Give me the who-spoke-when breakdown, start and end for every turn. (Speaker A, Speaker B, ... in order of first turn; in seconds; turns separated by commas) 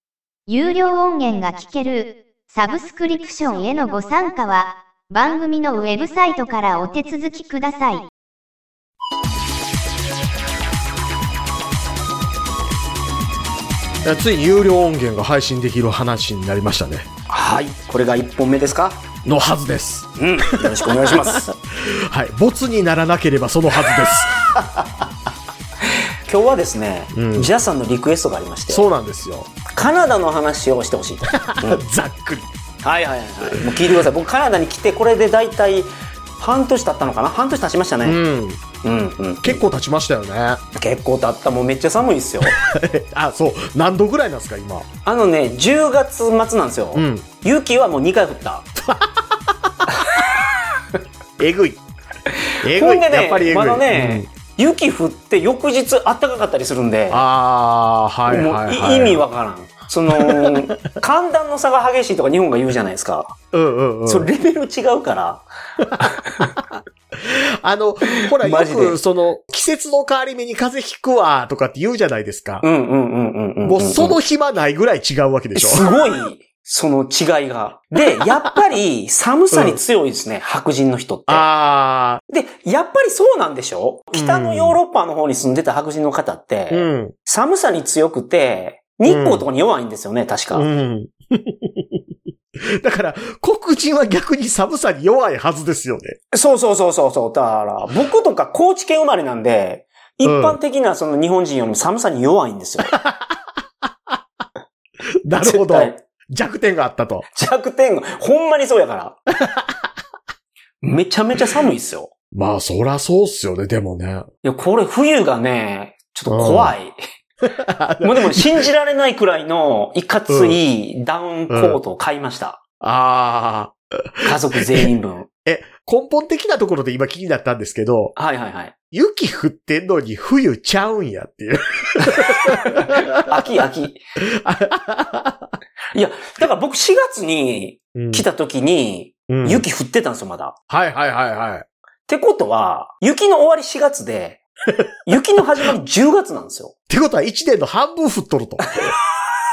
Speaker A: 0.5-8.0, Speaker B: 14.0-17.1, Speaker C: 17.3-19.0, Speaker B: 19.2-24.3, Speaker C: 20.2-21.5, Speaker C: 26.3-28.9, Speaker B: 27.1-27.5, Speaker B: 28.7-29.5, Speaker C: 29.7-31.8, Speaker B: 31.3-32.5, Speaker C: 32.8-38.2, Speaker B: 33.6-33.8, Speaker B: 38.0-38.6, Speaker C: 38.8-39.6, Speaker B: 39.4-40.6, Speaker C: 40.7-42.5, Speaker B: 42.4-44.9, Speaker C: 45.0-48.7, Speaker B: 46.9-47.3, Speaker B: 48.8-49.3, Speaker B: 51.4-51.8, Speaker B: 52.6-54.3, Speaker C: 52.6-57.3, Speaker B: 57.1-59.2, Speaker C: 58.3-63.4, Speaker B: 60.1-60.5, Speaker B: 63.5-64.3, Speaker C: 64.0-65.5, Speaker C: 66.0-66.5, Speaker B: 66.6-72.7, Speaker C: 68.3-69.0, Speaker C: 72.6-74.2, Speaker B: 73.6-75.9, Speaker C: 75.5-81.5, Speaker B: 79.5-79.8, Speaker B: 81.3-82.2, Speaker C: 82.3-90.7, Speaker B: 84.1-84.8, Speaker B: 86.7-87.1, Speaker B: 89.0-89.5, Speaker B: 90.5-92.0, Speaker B: 92.8-96.2, Speaker C: 96.3-102.9, Speaker B: 100.2-100.6, Speaker B: 102.9-103.3, Speaker B: 105.2-107.2, Speaker C: 105.4-106.0, Speaker C: 107.3-109.2, Speaker B: 109.4-109.7, Speaker C: 110.8-112.1, Speaker B: 112.3-114.3, Speaker C: 114.4-117.0, Speaker B: 116.3-116.7, Speaker B: 117.4-118.7, Speaker C: 118.0-122.6, Speaker B: 120.3-120.6, Speaker B: 121.5-121.8, Speaker B: 122.8-124.9, Speaker C: 124.2-125.3, Speaker B: 125.4-128.1, Speaker C: 128.2-128.7, Speaker B: 128.9-133.2, Speaker C: 132.2-134.0, Speaker B: 134.2-135.5, Speaker C: 135.9-140.6, Speaker B: 137.9-138.2, Speaker B: 139.3-139.7, Speaker B: 140.7-141.7, Speaker C: 142.1-144.4, Speaker C: 145.1-146.7, Speaker B: 146.9-148.7, Speaker C: 148.6-148.9